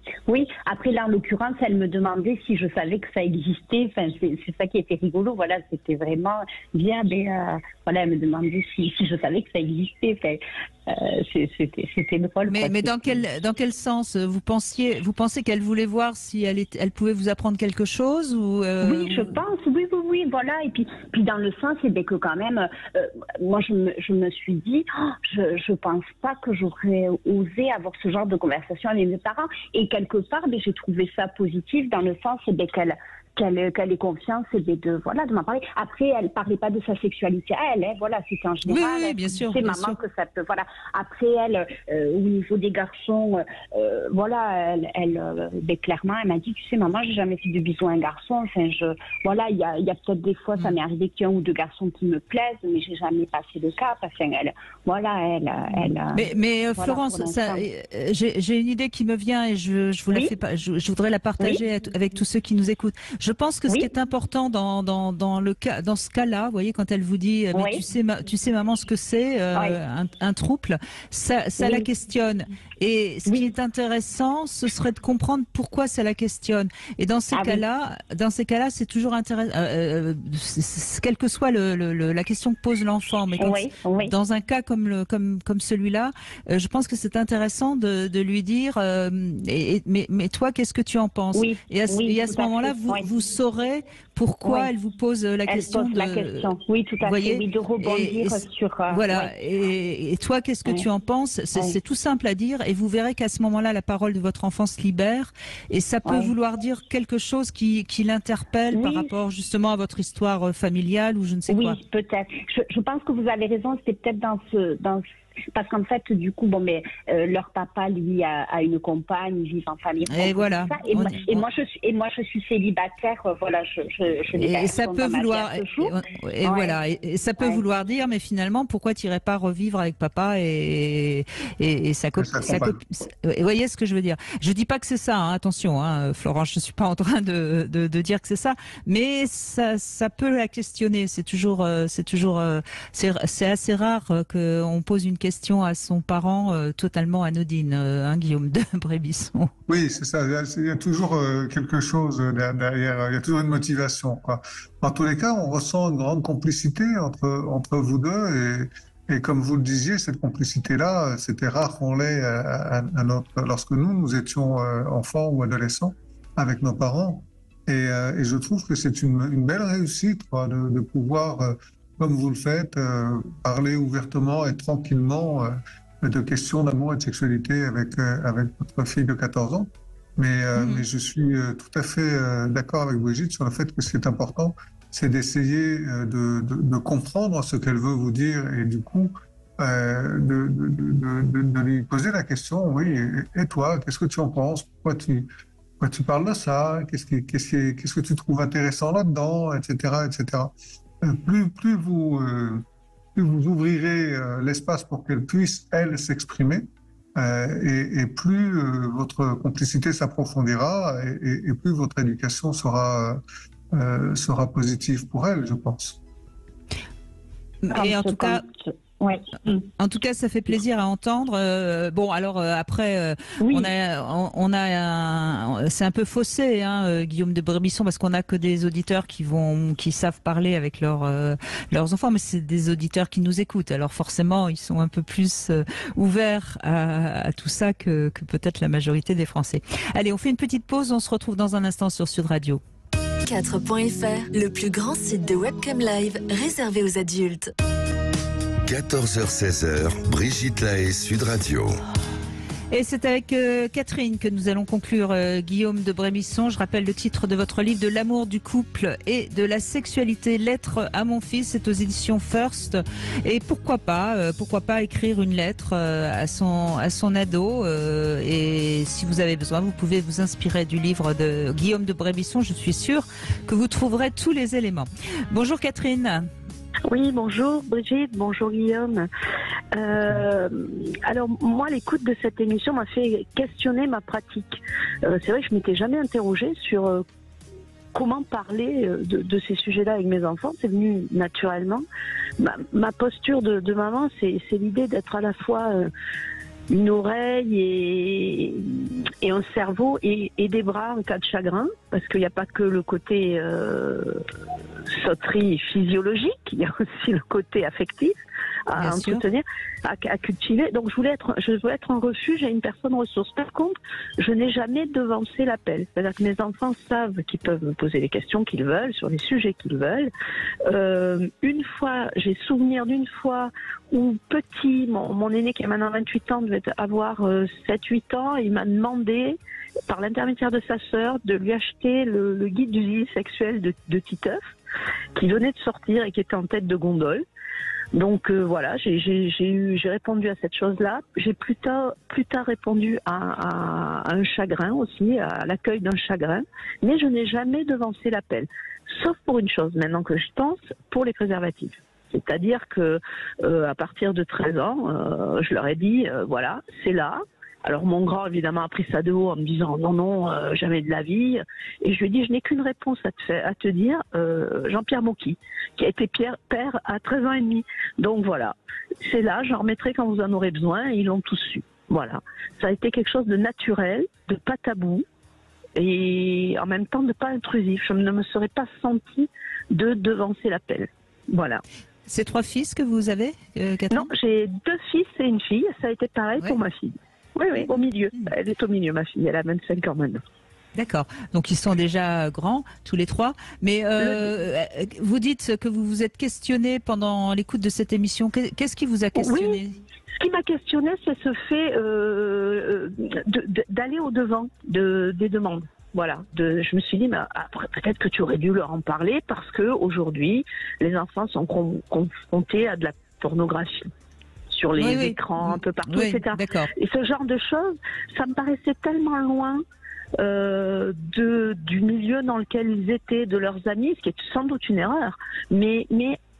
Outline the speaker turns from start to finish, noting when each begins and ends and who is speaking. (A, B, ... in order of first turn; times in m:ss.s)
0:00.3-0:13.2 A
0:12.5-0:19.4 B
0:18.8-0:57.6 A
0:38.6-0:40.0 B
0:56.1-1:51.8 B
1:07.5-1:07.8 A
1:11.6-1:11.9 A
1:13.2-1:13.5 A
1:17.3-1:17.6 A
1:23.4-1:24.1 A
1:31.3-1:33.0 A
1:34.4-1:34.7 A
1:35.5-1:39.3 A
1:46.0-1:46.3 A
1:48.7-1:49.1 A
1:51.5-2:06.8 A
2:00.1-2:01.4 B
2:04.4-2:29.5 B
2:12.2-2:12.8 C
2:29.7-3:15.3 C
3:00.6-3:00.8 B
3:15.8-3:33.2 C
3:33.7-3:36.0 C
3:37.6-3:38.4 B
3:37.7-3:39.7 A
3:39.8-4:02.6 B
3:43.4-3:43.7 A
4:03.2-4:07.5 D
4:08.6-4:11.8 E
4:12.7-4:36.3 B
4:36.9-4:39.1 F
4:39.8-4:47.0 F
4:47.9-4:51.8 F
4:52.4-4:55.9 F
4:56.7-5:04.2 F
5:04.9-5:08.2 F
5:08.7-5:20.1 F
5:08.8-5:09.2 B
5:20.6-5:34.4 F
5:35.2-5:37.2 F
5:37.9-6:15.0 F
6:15.8-6:21.6 F
6:22.1-6:24.1 B
6:23.9-6:30.2 F
6:30.8-6:39.8 B
6:34.0-6:34.3 F
6:39.2-6:39.6 F
6:40.2-6:53.9 F
6:54.5-6:59.6 F
6:54.8-6:56.7 B
7:00.2-7:06.2 F